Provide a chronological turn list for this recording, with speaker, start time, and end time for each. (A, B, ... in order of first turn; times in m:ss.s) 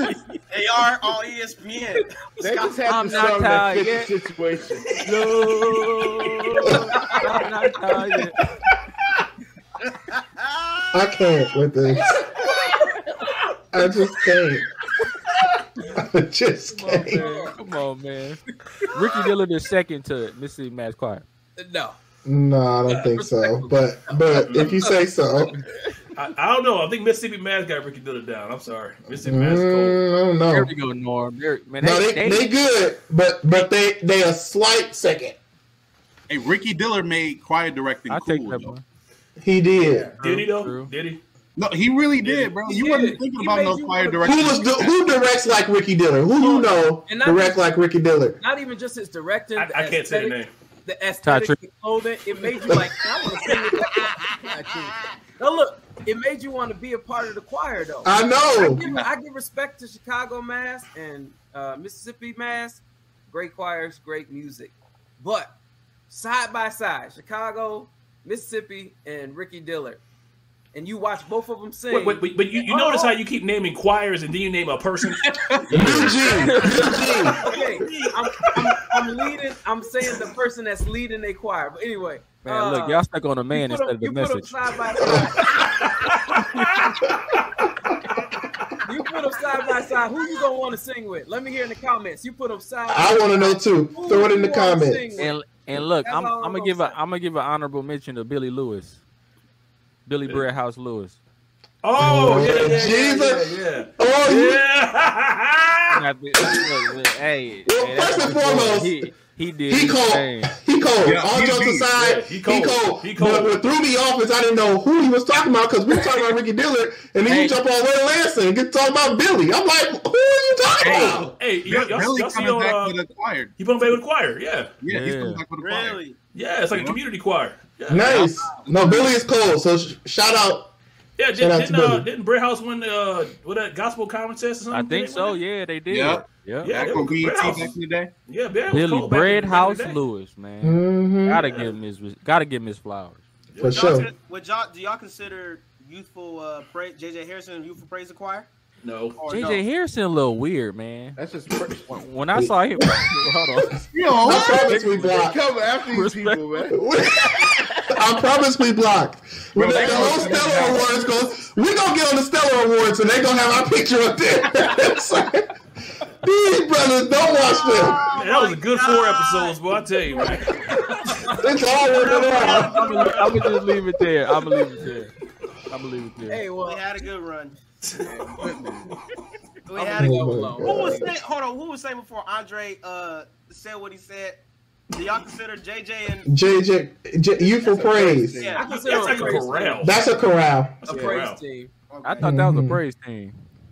0:00.5-0:02.5 A
0:02.4-0:04.9 B
0:02.9-0:04.1 C
0:05.0-0:08.4 C
0:07.0-0:07.5 D
0:10.1-0:11.0 A
0:10.9-0:12.2 E
0:12.4-0:12.8 D
0:13.7-0:14.7 E
0:15.9-0:17.2 E
0:16.7-0:18.4 C
0:17.1-0:17.6 D
0:18.9-0:21.2 C
0:21.6-0:22.0 D
0:22.2-0:25.6 E
0:22.9-0:25.0 D
0:24.4-0:24.8 F
0:26.2-0:30.0 F
0:29.1-0:30.7 E
0:30.5-0:32.5 C
0:31.8-0:35.4 E
0:36.3-0:38.8 G
0:38.1-0:38.8 C
0:39.4-0:40.1 E
0:39.8-0:40.2 B
0:40.2-0:40.9 C
0:40.2-0:41.2 F
0:41.6-0:45.0 G
0:42.6-0:44.6 D
0:44.2-0:48.4 E
0:46.4-0:47.6 D
0:48.4-1:05.5 D
0:49.6-0:50.5 F
0:51.2-0:51.6 C
0:58.0-0:58.8 E
0:58.6-0:59.1 G
1:06.1-1:10.0 D
1:10.7-1:13.1 D
1:11.9-1:15.4 F
1:15.3-1:15.7 G
1:15.7-1:17.0 C
1:15.7-1:17.4 E
1:16.6-1:25.6 D
1:16.6-1:18.2 A
1:22.4-1:24.6 C
1:25.0-1:25.4 E
1:26.0-1:26.6 F
1:28.8-1:37.0 D
1:32.9-1:35.2 E
1:35.2-1:39.0 C
1:40.1-1:41.2 C
1:41.8-1:46.0 F
1:42.0-1:44.6 E
1:45.9-1:50.5 C
1:47.7-1:49.0 E
1:49.7-2:01.3 E
1:51.0-1:51.9 G
1:52.0-1:53.6 F
1:57.2-1:57.6 C
2:00.8-2:03.5 G
2:01.2-2:03.0 F
2:03.6-2:04.8 F
2:04.8-2:06.0 G
2:04.9-2:05.4 C
2:05.6-2:06.2 A
2:06.3-2:08.4 F
2:06.7-2:07.0 G
2:07.9-2:10.7 E
2:11.2-2:15.4 F
2:11.4-2:12.1 E
2:14.7-2:16.9 C
2:15.9-2:18.1 G
2:16.6-2:17.8 F
2:18.3-2:20.0 F
2:18.7-2:23.2 C
2:20.6-2:21.5 E
2:21.4-2:21.8 F
2:23.5-2:24.0 F
2:23.6-2:24.1 E
2:23.7-2:28.5 A
2:28.8-2:29.2 F
2:29.2-2:29.6 A
2:29.3-2:31.2 C
2:31.2-2:32.0 B
2:31.9-2:35.3 C
2:33.9-2:34.7 G
2:34.2-2:35.4 E
2:34.7-2:36.8 B
2:35.8-2:36.6 C
2:36.7-2:45.5 E
2:37.4-2:37.9 B
2:39.6-2:40.8 G
2:39.6-2:40.9 B
2:46.2-2:48.0 E
2:47.3-2:49.6 A
2:48.1-2:51.3 F
2:50.1-2:50.4 A
2:50.9-2:51.3 D
2:51.4-2:52.8 E
2:51.9-2:53.3 A
2:52.3-2:55.1 C
2:52.4-2:53.6 F
2:55.7-2:56.4 C
2:56.3-2:56.8 D
2:56.6-2:57.6 A
2:57.8-2:59.0 F
2:58.0-2:58.6 D
2:58.4-2:58.8 B
2:59.7-3:04.4 A
2:59.7-3:01.1 D
3:00.0-3:01.1 E
3:04.9-3:06.3 A
3:06.3-3:08.5 E
3:07.6-3:08.7 B
3:08.4-3:09.4 A
3:08.6-3:09.9 D
3:08.6-3:10.0 F
3:09.8-3:10.8 E
3:10.8-3:11.4 F
3:10.9-3:11.7 D
3:10.9-3:11.2 B
3:11.9-3:12.3 A
3:12.0-3:13.4 C
3:12.2-3:12.8 E